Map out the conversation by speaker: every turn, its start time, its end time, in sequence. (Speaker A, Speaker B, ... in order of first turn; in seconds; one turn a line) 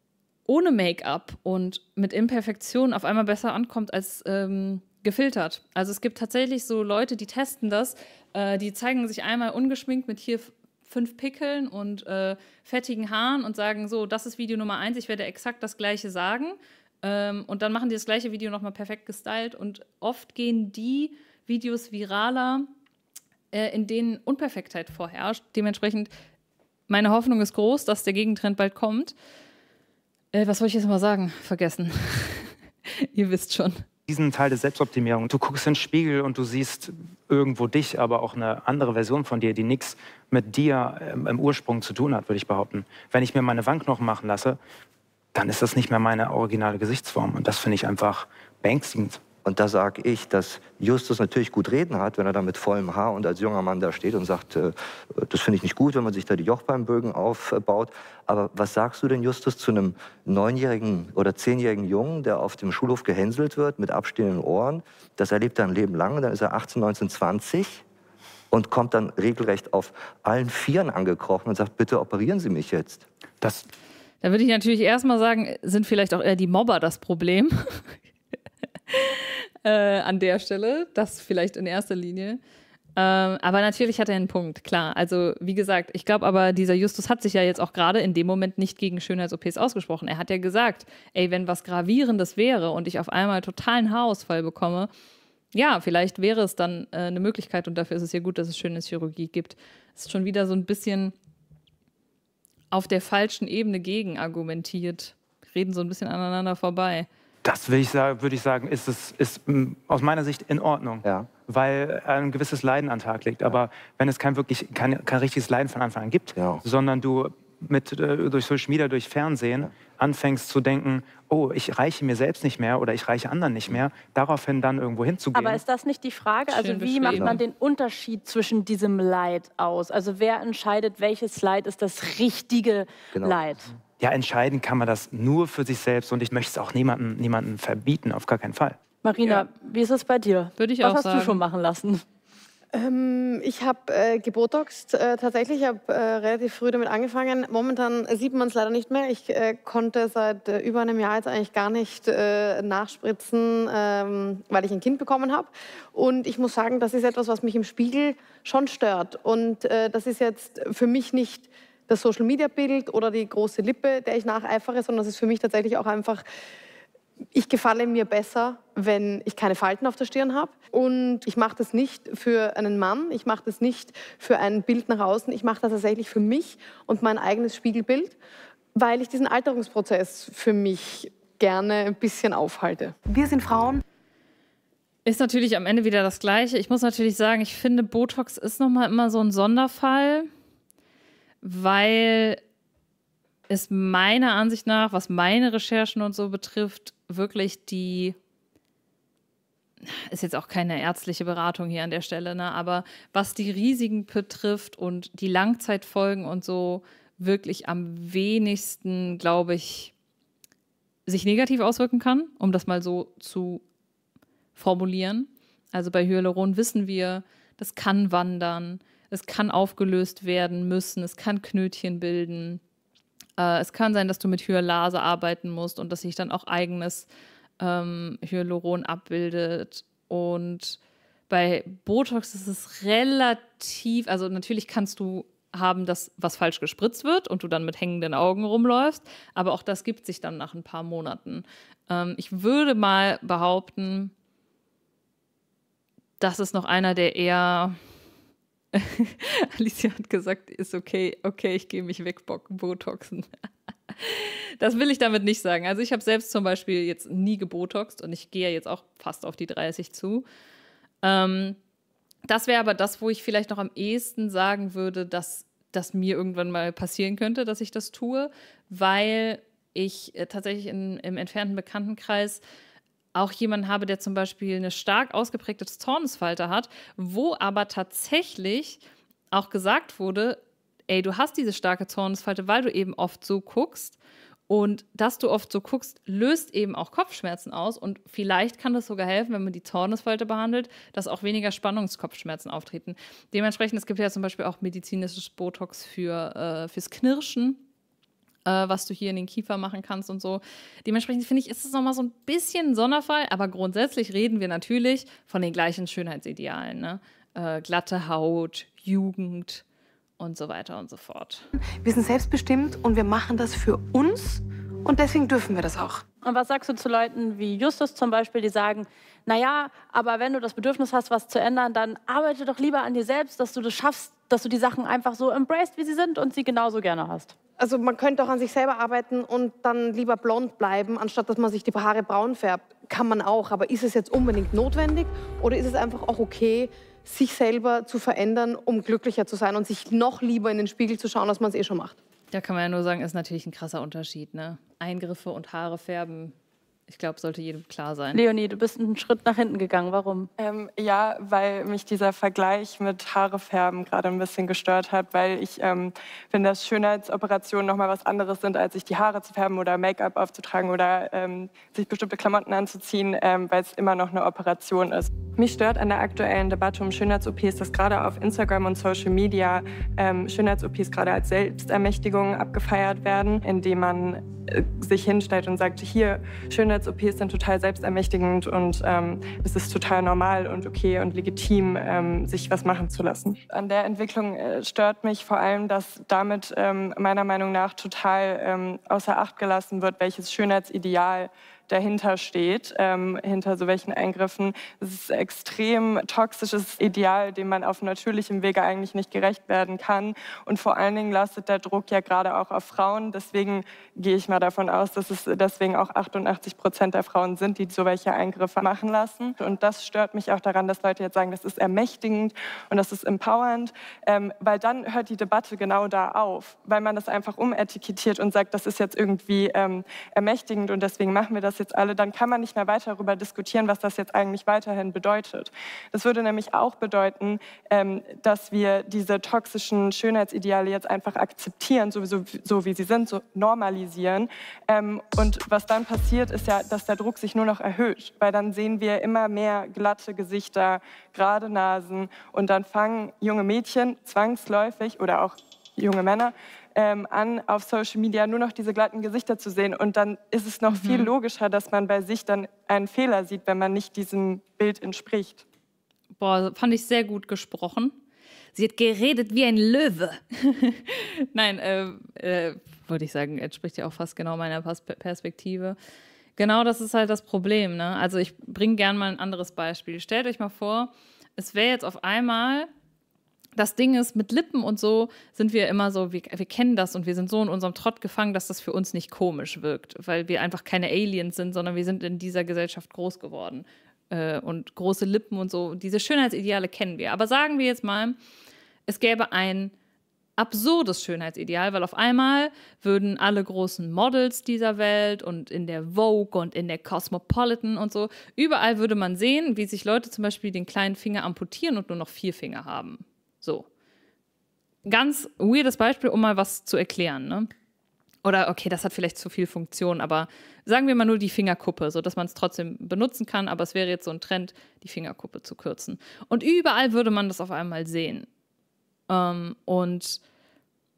Speaker A: 0.5-22.7
Speaker A: 23.5-26.1
Speaker A: 26.9-29.2
Speaker A: 30.3-33.9
Speaker B: 34.1-44.6
Speaker B: 45.3-49.2
Speaker C: 49.5-67.8
Speaker C: 68.5-73.1
Speaker B: 73.4-73.7
Speaker A: 74.2-78.0
Speaker A: 78.9-82.4
Speaker A: 83.0-94.9
Speaker A: 95.5-101.1
Speaker A: 102.7-107.1
Speaker B: 107.4-125.6
Speaker C: 111.0-111.3
Speaker C: 116.3-116.6
Speaker D: 125.3-133.7
Speaker A: 126.5-127.4
Speaker C: 127.1-127.4
Speaker C: 133.1-133.4
Speaker B: 134.0-138.8
Speaker D: 139.0-142.0
Speaker A: 140.6-141.4
Speaker E: 142.7-166.2
Speaker E: 167.3-178.2
Speaker E: 178.8-183.8
Speaker A: 185.1-190.3
Speaker A: 191.4-192.4
Speaker A: 193.5-198.2
Speaker A: 199.8-209.9
Speaker A: 211.1-213.6
Speaker A: 214.6-222.6
Speaker A: 223.4-227.1
Speaker A: 227.6-244.1
Speaker A: 246.2-247.8
Speaker A: 248.7-253.3
Speaker A: 253.9-260.2
Speaker A: 261.0-261.6
Speaker A: 262.3-272.4
Speaker A: 273.1-278.8
Speaker A: 279.3-284.0
Speaker A: 284.5-297.6
Speaker A: 298.4-309.6
Speaker A: 310.2-311.5
Speaker E: 311.8-316.0
Speaker D: 316.2-327.3
Speaker E: 327.6-342.0
Speaker A: 342.3-346.3
Speaker A: 346.9-348.2
Speaker D: 348.1-350.3
Speaker F: 350.4-455.4
Speaker A: 450.7-451.1
Speaker A: 456.2-458.0
Speaker A: 458.6-465.8
Speaker A: 466.4-472.7
Speaker A: 473.6-488.2
Speaker A: 488.9-489.7
Speaker A: 490.4-503.7
Speaker A: 504.9-507.5
Speaker A: 508.2-518.3
Speaker A: 519.1-520.2